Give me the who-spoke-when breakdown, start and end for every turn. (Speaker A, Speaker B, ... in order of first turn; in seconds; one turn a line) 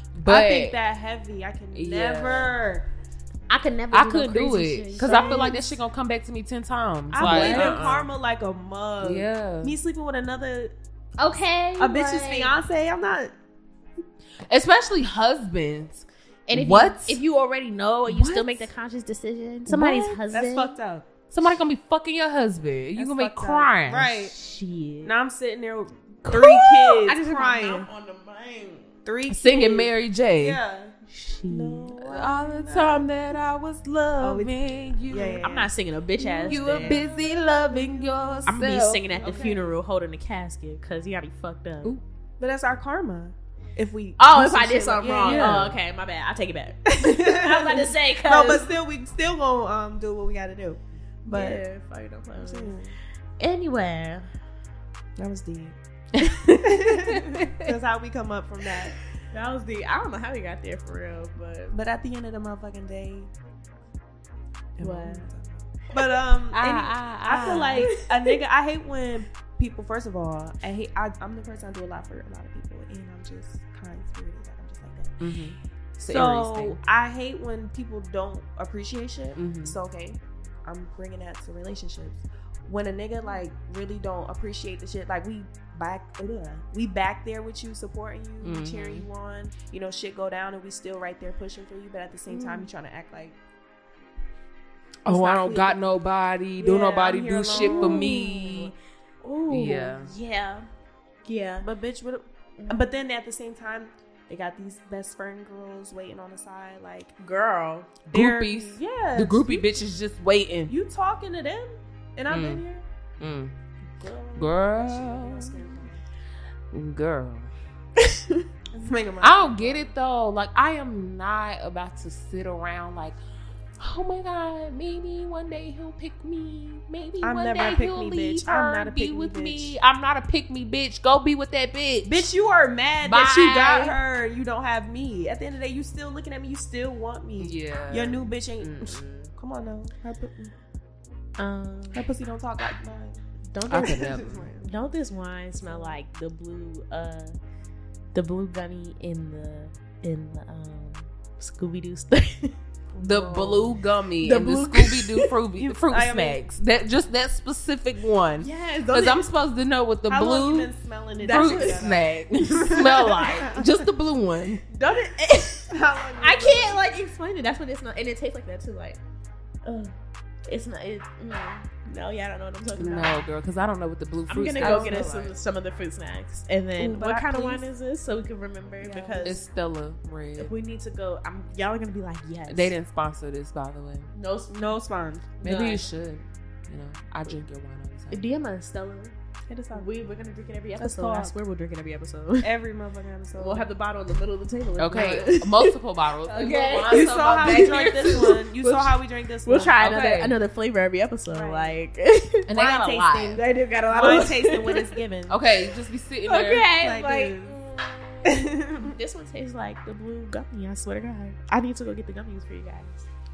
Speaker A: 0.1-0.8
Speaker B: 0.2-2.9
Speaker A: 1.7-2.5
Speaker C: 3.5-5.7
Speaker A: 3.9-8.1
Speaker B: 5.0-5.7
Speaker B: 7.1-10.7
Speaker C: 7.1-7.9
Speaker A: 9.0-9.8
Speaker C: 11.2-12.5
Speaker B: 11.8-13.3
Speaker A: 14.5-17.2
Speaker C: 16.5-20.7
Speaker A: 18.1-18.7
Speaker A: 19.7-20.2
Speaker B: 20.2-21.0
Speaker A: 21.3-24.1
Speaker B: 22.9-24.3
Speaker C: 24.3-25.1
Speaker B: 25.0-27.9
Speaker C: 26.2-28.9
Speaker B: 29.0-30.9
Speaker A: 29.3-30.6
Speaker C: 31.1-31.9
Speaker B: 31.5-33.1
Speaker A: 32.0-35.4
Speaker B: 34.2-34.5
Speaker B: 35.1-38.4
Speaker C: 35.4-37.0
Speaker A: 36.5-39.4
Speaker C: 38.5-42.0
Speaker B: 39.2-39.7
Speaker B: 42.4-45.8
Speaker C: 44.2-48.7
Speaker A: 45.2-45.7
Speaker B: 46.9-51.6
Speaker C: 51.2-52.7
Speaker B: 52.4-52.9
Speaker C: 53.4-54.3
Speaker B: 55.2-55.7
Speaker C: 56.2-56.5
Speaker B: 56.5-59.0
Speaker C: 59.3-61.8
Speaker B: 61.7-63.3
Speaker B: 64.8-75.2
Speaker C: 64.8-65.2
Speaker A: 66.5-67.9
Speaker A: 75.2-76.8
Speaker B: 76.0-93.4
Speaker A: 79.3-79.7
Speaker A: 88.4-89.0
Speaker C: 92.3-92.7
Speaker B: 95.0-95.8
Speaker A: 95.0-98.7
Speaker B: 96.6-98.6
Speaker C: 97.5-100.7
Speaker A: 99.5-100.1
Speaker C: 101.2-101.7
Speaker B: 101.6-107.1
Speaker C: 107.2-107.9
Speaker A: 108.0-110.7
Speaker B: 108.1-109.8
Speaker B: 110.7-112.8
Speaker A: 112.3-112.6
Speaker A: 113.2-113.5
Speaker B: 114.0-116.0
Speaker A: 114.4-115.5
Speaker A: 116.7-117.5
Speaker C: 118.0-118.5
Speaker B: 118.7-119.9
Speaker A: 119.2-123.2
Speaker A: 123.8-132.3
Speaker B: 127.2-129.8
Speaker B: 132.0-140.5
Speaker A: 133.0-134.0
Speaker A: 137.4-139.3
Speaker C: 141.4-142.1
Speaker B: 141.9-144.7
Speaker C: 143.5-144.0
Speaker A: 143.7-144.5
Speaker C: 144.6-147.3
Speaker C: 148.1-152.6
Speaker B: 152.9-153.7
Speaker A: 153.0-160.7
Speaker C: 154.2-155.3
Speaker B: 155.6-156.4
Speaker C: 158.4-159.3
Speaker B: 160.1-163.6
Speaker C: 161.2-162.0
Speaker A: 161.3-164.6
Speaker C: 162.6-163.2
Speaker C: 164.7-169.0
Speaker B: 165.7-166.8
Speaker C: 169.6-169.9
Speaker C: 170.4-173.2
Speaker A: 172.8-175.3
Speaker C: 174.3-179.4
Speaker B: 174.6-175.2
Speaker B: 176.8-177.7
Speaker B: 178.8-179.4
Speaker A: 179.2-180.5
Speaker C: 180.4-182.8
Speaker A: 182.5-184.1
Speaker C: 184.1-184.6
Speaker B: 184.5-185.3
Speaker C: 185.4-185.9
Speaker A: 185.4-188.2
Speaker C: 188.1-189.1
Speaker B: 189.5-189.9
Speaker C: 189.7-192.6
Speaker B: 190.8-191.3
Speaker B: 192.4-193.7
Speaker C: 193.3-202.5
Speaker A: 194.8-198.4
Speaker B: 196.9-199.8
Speaker A: 199.8-200.3
Speaker B: 201.3-201.8
Speaker A: 202.5-203.4
Speaker B: 202.5-205.4
Speaker C: 203.3-204.9
Speaker A: 205.3-206.7
Speaker C: 206.2-213.1
Speaker B: 206.8-207.5
Speaker B: 208.2-208.9